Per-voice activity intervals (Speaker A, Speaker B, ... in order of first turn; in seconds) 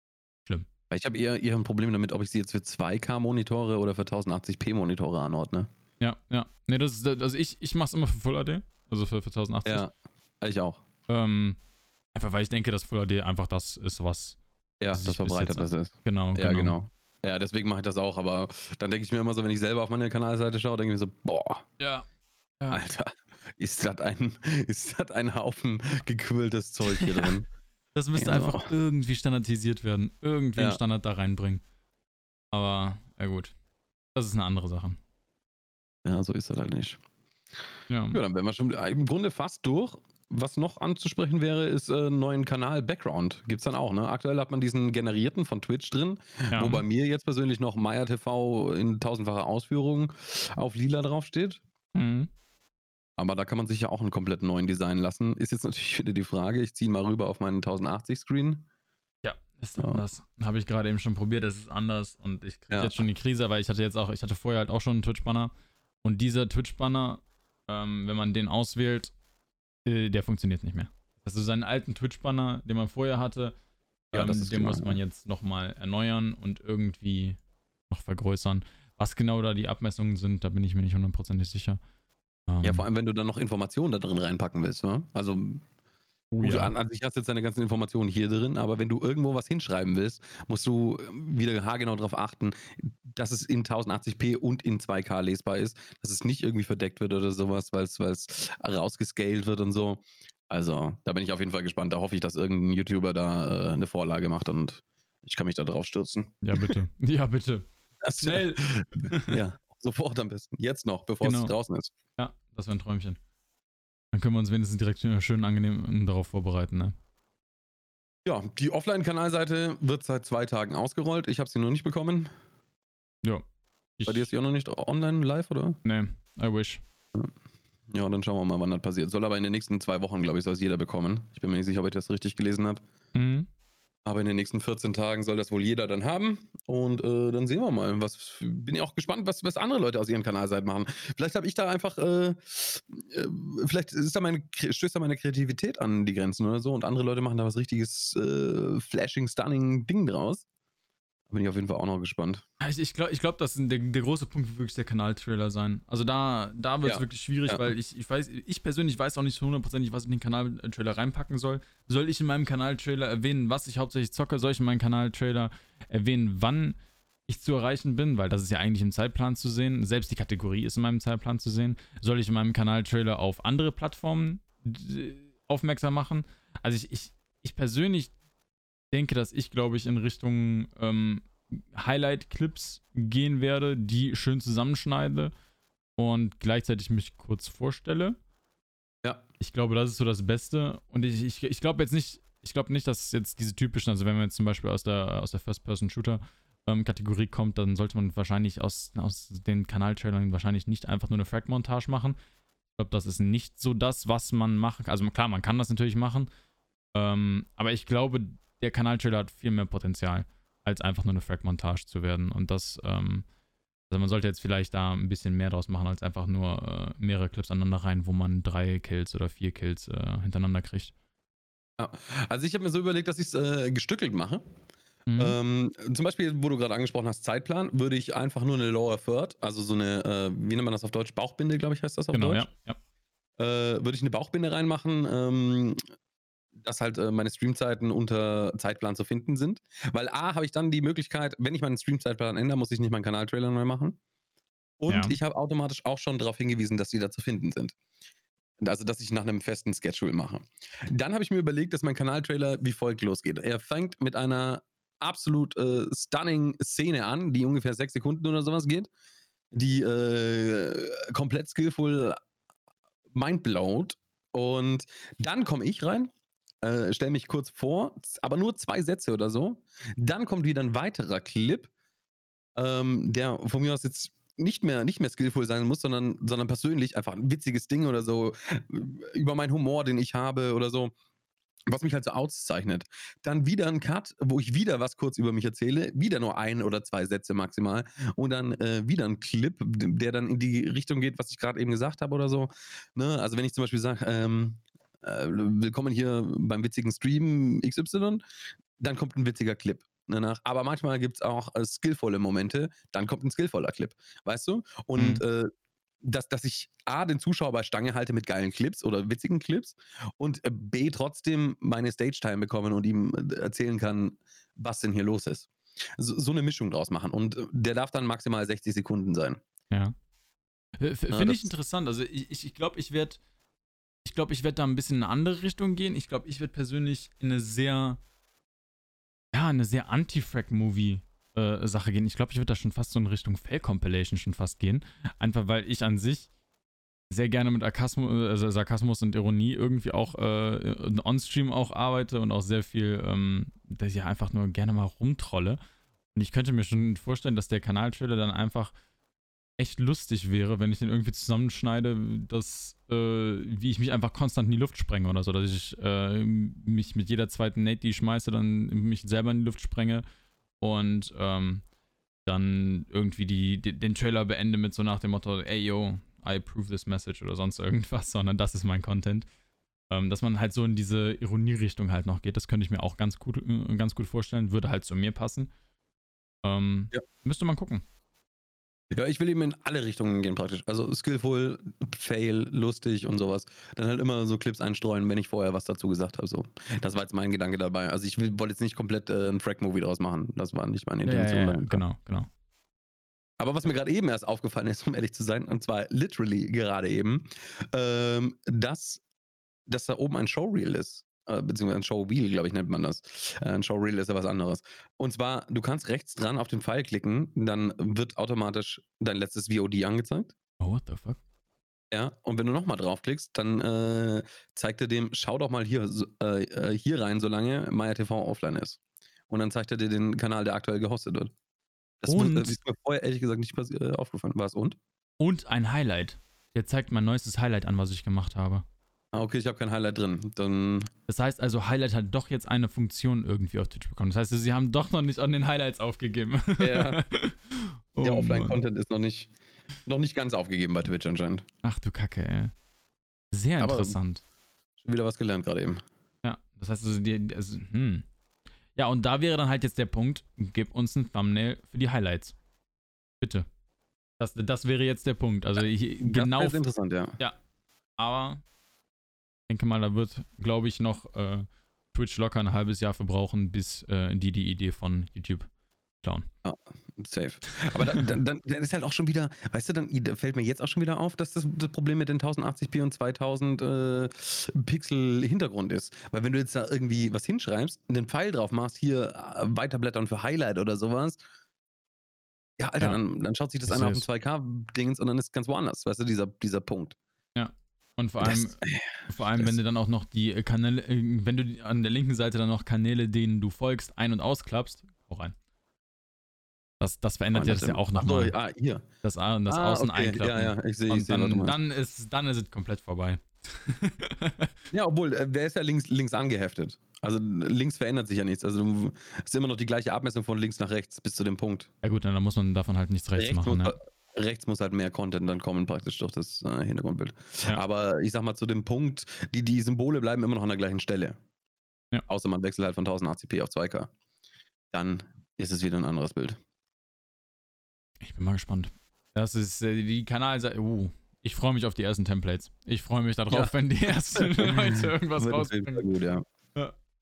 Speaker A: 0.9-5.7, 9.7-9.9, 10.4-10.8, 14.8-21.7, 22.7-27.5, 28.2-28.7, 36.1-37.0, 38.1-51.6, 53.2-58.6, 59.8-60.0, 62.7-63.0, 74.1-75.0, 82.6-85.6, 86.4-106.8, 108.0-111.9, 118.3-122.3, 124.1-125.8, 127.9-132.8, 134.1-150.4, 151.3-152.4, 156.8-157.7, 221.8-224.4, 225.2-232.5, 233.4-235.8, 236.6-244.0, 244.8-247.8, 248.6-258.9, 259.5-262.2, 263.1-266.1, 266.6-271.7, 272.6-280.9, 281.7-298.2, 298.8-305.5, 306.0-319.4, 321.1-321.5, 378.9-391.8, 393.4-399.0, 399.7-410.3, 411.9-418.8, 419.3-421.3, 422.0-424.8, 429.1-430.9, 436.6-437.0, 438.0-439.3, 439.9-441.4, 443.6-444.0, 444.8-445.8, 456.0-457.2, 466.4-481.2, 482.6-487.0, 488.2-489.6, 497.3-498.8, 499.5-501.6, 504.7-511.7, 513.2-521.2, 522.1-523.9, 524.7-526.4, 534.1-536.2
Speaker B: 6.0-9.8, 11.1-11.6, 12.1-14.4, 14.9-16.8, 21.8-22.1, 27.0-27.3, 27.9-31.6, 32.5-33.5, 34.1-35.0, 37.9-38.2, 46.5-46.8, 51.9-52.3, 59.2-65.5, 66.0-69.1, 69.8-73.5, 74.1-77.4, 77.9-81.8, 82.5-82.8, 86.3-86.7, 106.4-107.7, 108.2-109.4, 111.2-111.5, 112.2-113.2, 114.1-117.0, 124.0-124.3, 125.8-126.8, 133.1-133.5, 152.6-166.8, 167.3-178.1, 178.9-185.3, 186.0-188.2, 189.4-202.2, 202.8-206.3, 206.9-213.3, 213.9-220.9, 225.1-225.4, 232.1-232.8, 244.9-245.2, 305.0-305.2, 319.7-319.9, 320.8-323.2, 324.1-328.0, 329.3-336.3, 337.1-345.6, 346.1-348.7, 349.6-360.0, 360.6-361.6, 362.3-369.3, 369.9-375.5, 376.4-377.8, 391.1-392.3, 410.6-411.2, 422.1-422.6, 425.2-428.6, 431.1-438.6, 441.6-442.5, 443.3-444.2, 446.2-448.1, 448.8-452.4, 453.2-453.5, 454.2-456.6, 458.0-458.4, 459.5-465.5, 483.7-484.0, 487.4-495.4, 496.8-498.4, 499.0-504.5, 511.8-513.8, 528.0-535.9